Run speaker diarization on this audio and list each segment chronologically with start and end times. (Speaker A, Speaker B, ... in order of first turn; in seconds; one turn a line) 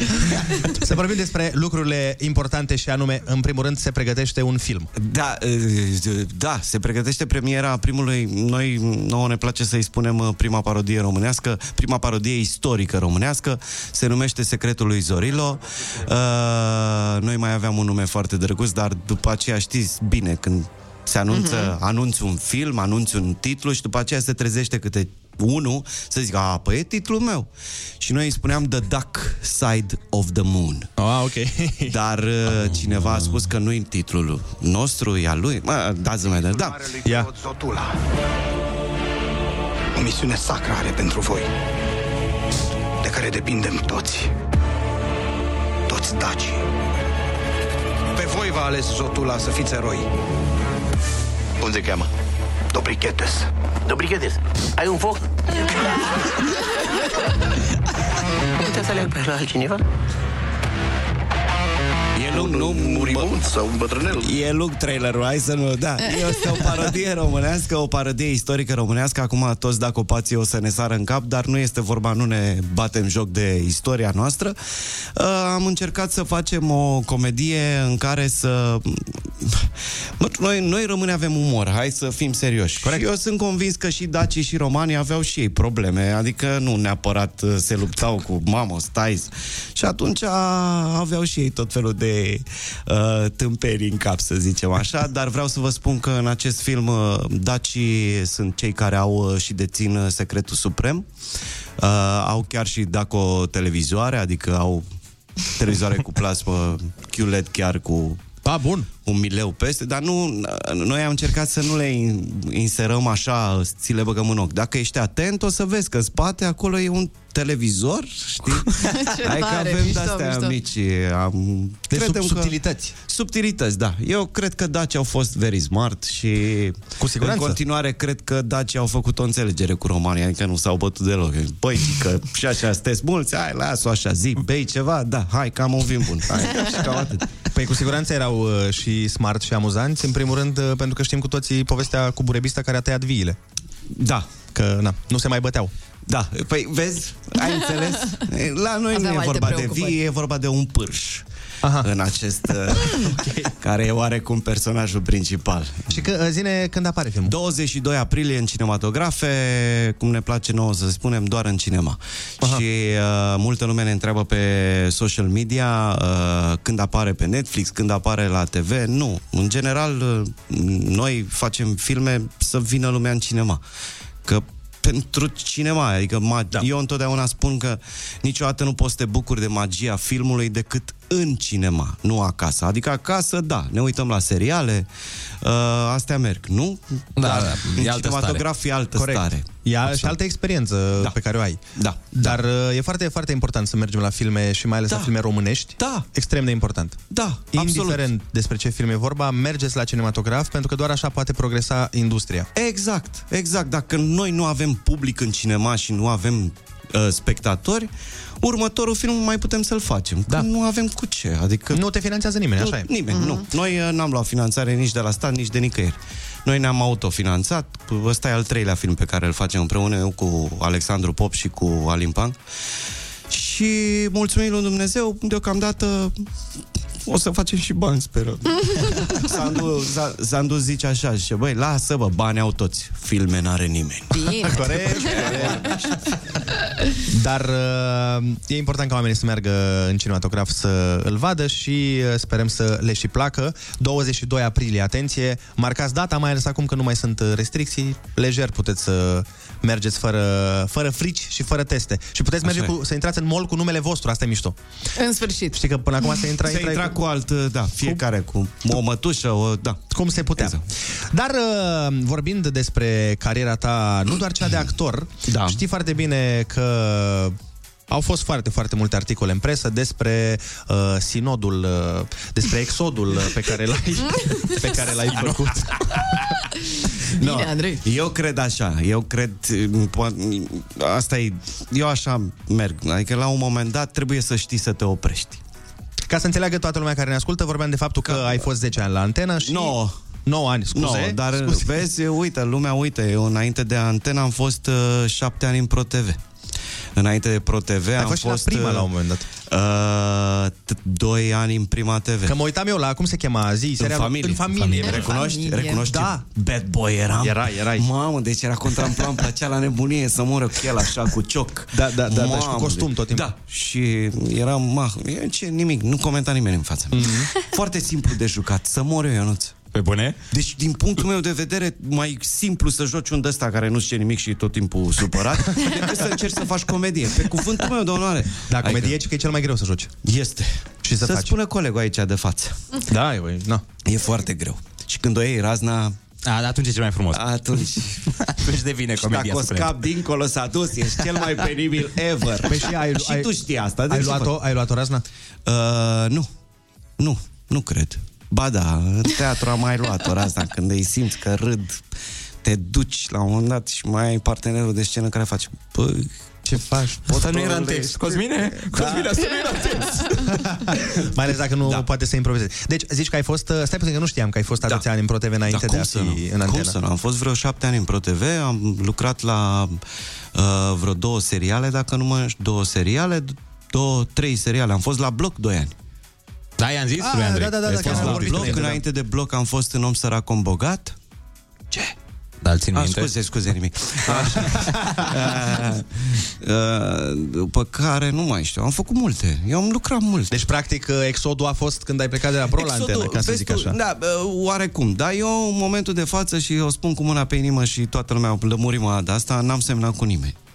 Speaker A: 0.7-4.9
Speaker B: 5.0-27.5
Speaker C: 21.3-21.7
Speaker B: 28.0-30.9
Speaker A: 31.0-32.0
Speaker B: 31.9-36.9
Speaker D: 36.4-38.0
Speaker D: 40.0-41.5
Speaker D: 43.0-44.3
Speaker D: 45.9-46.6
Speaker D: 48.1-50.1
Speaker D: 51.6-52.1
Speaker D: 52.7-55.6
Speaker D: 58.6-59.8
Speaker B: 62.2-63.3
Speaker D: 62.2-64.4
Speaker B: 64.2-74.6
Speaker B: 75.2-79.7
Speaker B: 80.2-101.0
Speaker B: 101.8-104.8
Speaker B: 105.6-108.2
Speaker A: 108.4-108.9
Speaker B: 109.0-137.3
Speaker C: 118.8-120.6
Speaker A: 121.9-123.0
Speaker A: 127.0-127.6
Speaker A: 137.5-143.4
Speaker B: 143.9-144.3
Speaker A: 144.6-145.7
Speaker B: 146.1-151.2
Speaker C: 148.9-150.0
Speaker A: 151.6-151.9
Speaker B: 151.8-156.0
Speaker A: 152.9-153.5
Speaker A: 155.9-157.4
Speaker B: 157.2-173.6
Speaker B: 174.2-184.9
Speaker B: 185.4-190.2
Speaker E: 187.2-188.4
Speaker A: 188.9-197.0
Speaker B: 191.8-192.4
Speaker B: 194.9-195.1
Speaker B: 195.8-196.1
Speaker B: 197.1-198.1
Speaker A: 197.5-202.5
Speaker B: 202.6-207.9
Speaker B: 208.4-211.8
Speaker A: 211.7-212.9
Speaker B: 212.6-222.4
Speaker C: 213.1-213.4
Speaker B: 223.3-226.1
Speaker B: 227.1-235.9
Speaker C: 234.1-235.5
Speaker A: 234.4-235.8
Speaker A: 237.1-254.6
Speaker B: 252.4-252.7
Speaker C: 255.0-255.6
Speaker A: 255.5-257.0
Speaker B: 256.4-260.6
Speaker A: 259.9-260.6
Speaker A: 261.1-267.4
Speaker B: 265.3-265.6
Speaker A: 267.9-275.9
Speaker E: 275.1-275.4
Speaker C: 277.2-277.8
Speaker B: 277.2-285.4
Speaker A: 286.1-291.8
Speaker B: 288.0-288.5
Speaker B: 289.4-289.9
Speaker B: 290.7-296.2
Speaker B: 297.0-298.9
Speaker A: 298.0-299.3
Speaker B: 299.4-302.4
Speaker A: 302.2-305.2
Speaker B: 303.8-319.6
Speaker E: 304.5-305.0
Speaker C: 304.8-305.9
Speaker A: 305.8-306.2
Speaker A: 307.2-307.9
Speaker A: 311.7-313.3
Speaker A: 316.9-317.3
Speaker E: 319.7-320.2
Speaker B: 320.3-329.0
Speaker A: 328.5-329.9
Speaker B: 330.0-332.6
Speaker A: 330.8-331.4
Speaker A: 332.9-333.6
Speaker B: 333.8-335.9
Speaker E: 336.3-337.3
Speaker B: 337.1-338.1
Speaker E: 338.2-339.9
Speaker B: 339.0-344.4
Speaker A: 342.4-343.4
Speaker A: 343.9-345.0
Speaker B: 345.5-346.3
Speaker B: 347.0-351.8
Speaker B: 352.4-356.1
Speaker A: 356.5-357.0
Speaker B: 357.1-359.3
Speaker E: 357.1-360.2
Speaker A: 360.3-366.8
Speaker B: 365.5-369.8
Speaker B: 370.4-375.7
Speaker E: 376.6-378.6
Speaker A: 377.0-378.8
Speaker B: 377.8-381.0
Speaker E: 382.4-383.1
Speaker B: 382.7-390.4
Speaker A: 384.1-385.1
Speaker A: 390.3-393.8
Speaker B: 392.5-400.4